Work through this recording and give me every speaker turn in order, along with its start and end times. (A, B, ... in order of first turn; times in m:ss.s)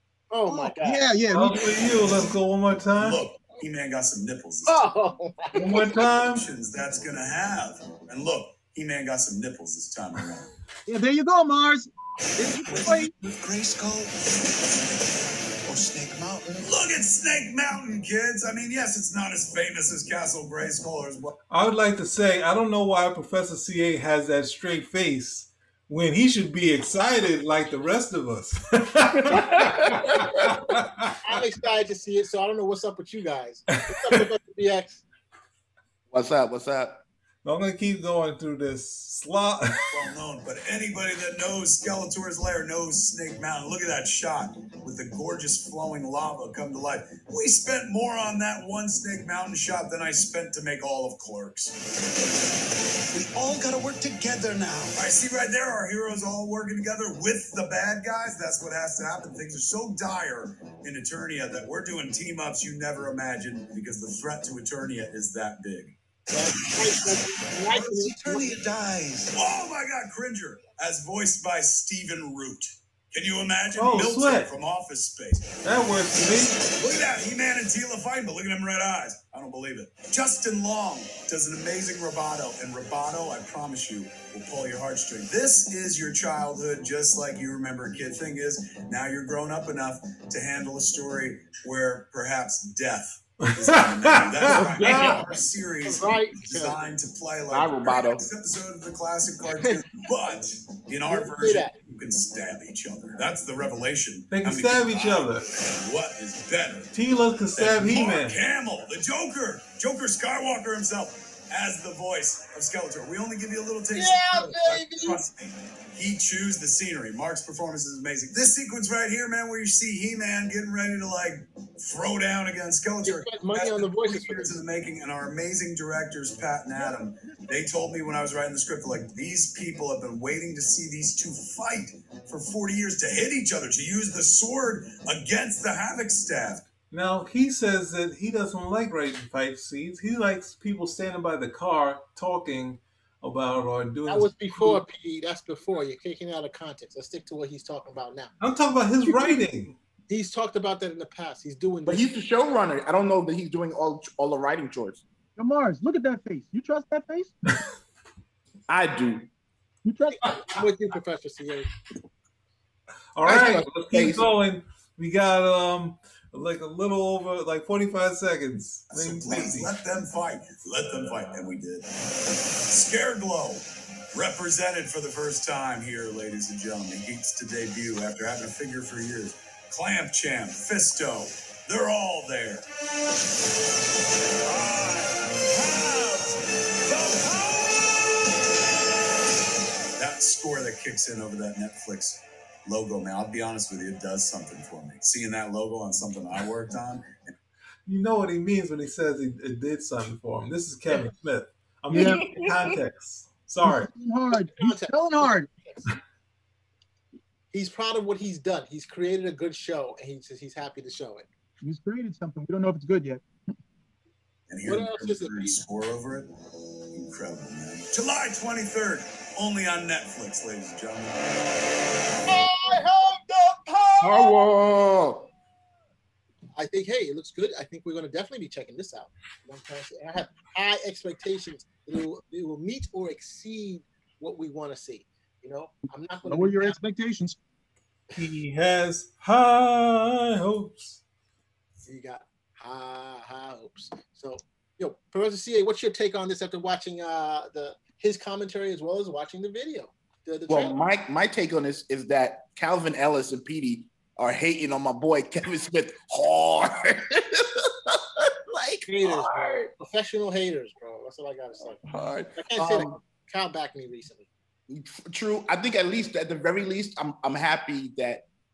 0:00.3-0:02.2 A
0:00.5-0:01.7 B
0:01.3-0:03.2 C
0:03.0-0:04.8 D
0:04.7-0:05.9 A
0:05.5-0:06.5 C
0:05.7-0:10.5 D
0:10.9-0:13.1 B
0:12.6-0:14.1 E
0:15.6-0:16.8 E
0:16.6-0:21.3 D
0:21.5-0:31.1 C
0:31.2-0:35.0 A
0:36.1-0:37.0 F
0:37.4-0:39.9 C
0:39.9-0:51.8 D
0:53.1-0:55.0 E
0:54.9-1:06.0 D
1:06.3-1:08.5 A
1:07.7-1:09.4 E
1:09.3-1:15.5 D
1:13.8-1:14.5 C
1:15.6-1:16.6 C
1:16.8-1:46.9 D
1:33.5-1:35.1 C
1:34.5-1:35.3 A
1:34.8-1:35.2 F
1:35.8-1:36.8 A
1:37.5-1:38.2 F
1:41.1-1:41.7 A
1:44.3-1:45.4 C
1:46.9-1:48.4 C
1:47.6-2:16.7 D
1:53.9-1:55.2 A
2:03.0-2:04.6 A
2:06.7-2:07.7 B
2:16.9-2:24.8 C
2:24.1-2:28.3 A
2:28.4-2:29.8 C
2:30.1-2:32.1 A
2:31.9-2:35.0 F
2:35.4-2:37.3 B
2:38.7-2:39.3 F
2:39.8-2:40.2 B
2:40.2-2:41.7 A
2:43.2-2:49.7 C
2:43.2-2:44.3 F
2:48.9-2:51.9 D
2:52.7-3:02.7 D
3:05.7-3:06.3 D
3:10.0-3:17.1 D
3:17.9-3:23.9 C
3:21.9-3:22.2 B
3:22.0-3:22.6 F
3:23.6-3:25.5 B
3:24.4-3:25.9 A
3:27.5-3:31.3 A
3:31.6-3:33.2 B
3:34.5-3:36.3 D
3:34.6-3:35.6 A
3:36.9-3:41.2 D
3:42.3-3:44.4 A
3:44.0-3:45.3 F
3:46.6-3:56.8 A
3:56.2-3:57.4 B
3:58.2-4:01.0 C
4:01.8-4:10.8 A
4:10.5-4:19.7 F
4:18.9-4:21.8 A
4:21.8-4:22.9 F
4:22.3-4:24.3 A
4:24.7-4:28.2 F